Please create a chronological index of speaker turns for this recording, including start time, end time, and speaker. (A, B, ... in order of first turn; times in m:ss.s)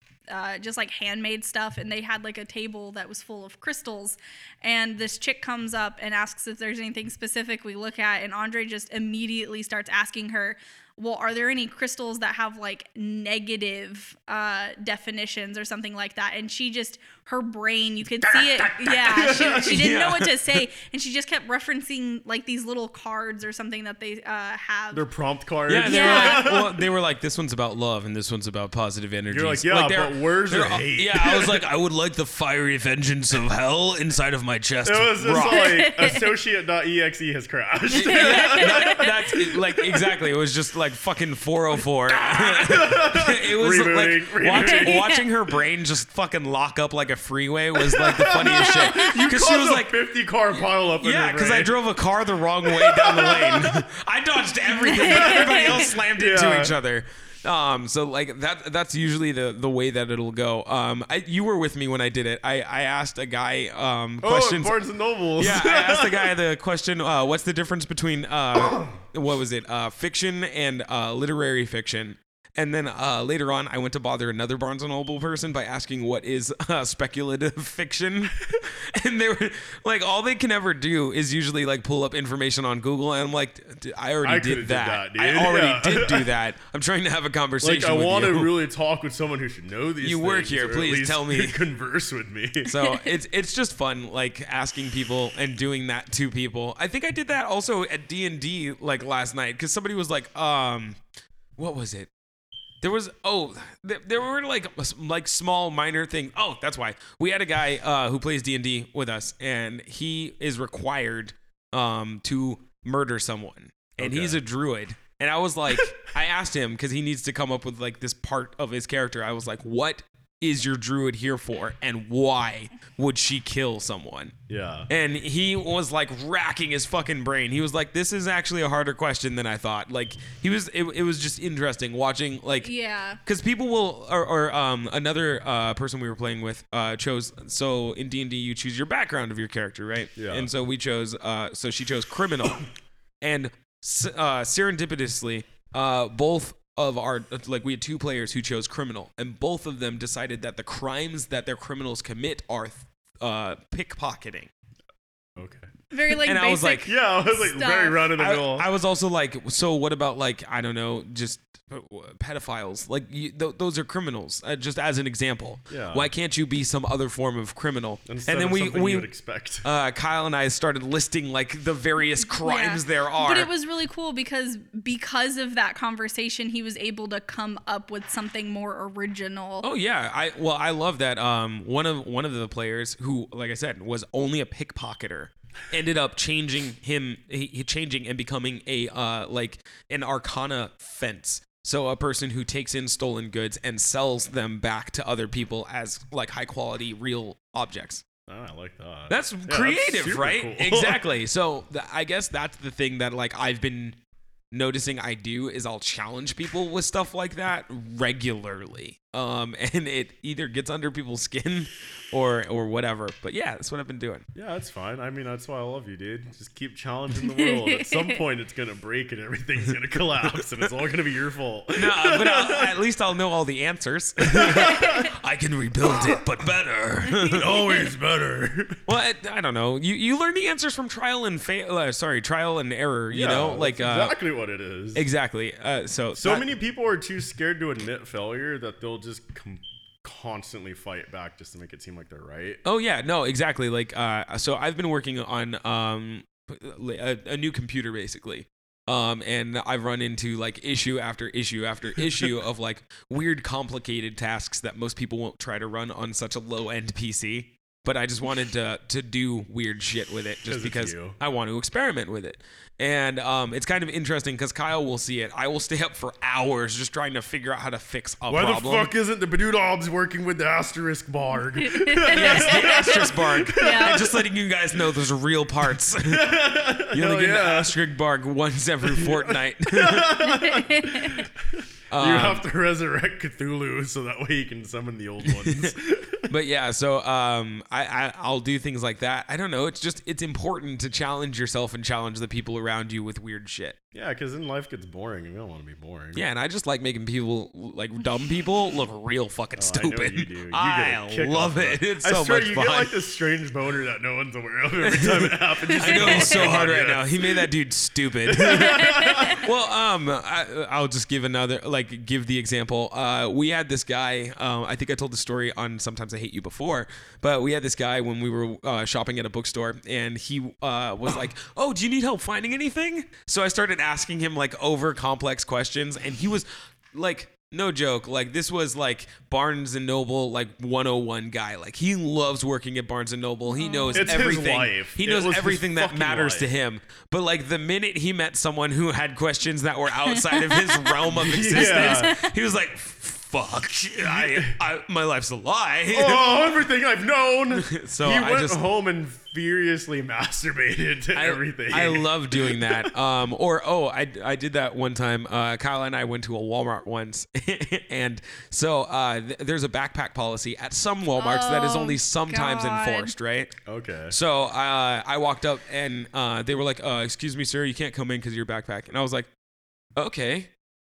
0:00.3-0:25.0 A
0:18.2-0:20.4 B
0:19.1-0:19.9 C
0:24.9-0:26.8 C
0:25.7-0:35.8 B
0:25.8-0:26.6 A
0:29.3-0:31.6 C
0:34.8-0:39.4 C
0:35.3-0:36.4 A
0:37.9-0:39.2 A
0:37.9-0:49.9 B
0:42.1-0:45.2 C
0:44.6-0:45.2 A
0:47.8-0:51.8 C
0:50.6-1:04.8 B
0:52.7-0:53.8 C
0:54.8-0:55.8 A
0:55.1-0:56.8 C
1:04.2-1:06.4 C
1:05.4-1:28.5 B
1:24.2-1:26.3 C
1:27.6-1:32.8 C
1:30.0-1:31.6 B
1:32.6-1:41.0 B
1:41.6-1:42.1 B
1:42.8-2:04.4 B
1:54.0-1:54.4 C
2:04.5-2:04.9 C
2:04.9-2:12.7 B
2:12.6-2:13.2 A
2:13.2-2:22.6 B
2:20.2-2:20.5 C
2:23.2-2:34.5 B
2:35.4-2:35.7 C
2:35.9-2:38.0 A
2:36.2-2:36.9 B
2:36.8-2:38.7 C
2:38.1-2:49.1 B
2:45.7-2:46.1 C
2:48.1-2:49.7 C
2:49.6-2:53.5 B
2:52.3-2:59.7 A
2:59.6-3:18.0 B
3:18.3-3:21.0 C
3:19.1-3:24.0 B
3:24.5-3:34.3 B
3:34.4-3:42.7 C
3:37.2-3:38.2 A
3:41.7-3:47.5 B
3:44.2-3:45.1 C
3:45.8-3:46.2 C
3:47.3-3:48.8 C
3:48.9-3:54.2 B
3:53.1-3:55.1 C
3:54.9-3:56.5 B
3:56.2-4:02.6 C
4:02.6-4:28.9 B
4:12.0-4:12.3 C
4:20.5-4:21.2 C
4:28.3-4:34.3 C
4:31.7-4:34.1 A
4:32.1-4:40.2 B
4:35.9-4:37.8 C
4:38.8-4:46.3 C
4:40.2-4:41.3 A
4:41.9-4:42.4 B
4:45.2-4:45.8 B
4:46.3-4:53.8 B
4:53.9-4:56.2 C
4:56.1-5:02.9 B
4:59.6-5:07.5 C
5:04.8-5:46.3 B
5:05.7-5:06.5 A
5:08.3-5:09.4 C
5:08.4-5:09.4 A
5:33.5-5:34.2 A
5:33.9-5:36.5 C
5:40.1-5:42.3 A
5:41.1-5:42.2 C
5:44.0-5:44.6 C
5:45.9-5:52.9 C
5:47.6-5:48.6 B
5:51.1-6:03.5 B
6:01.2-6:03.1 A
6:03.6-6:04.1 C
6:04.1-6:09.3 B
6:10.0-6:10.5 B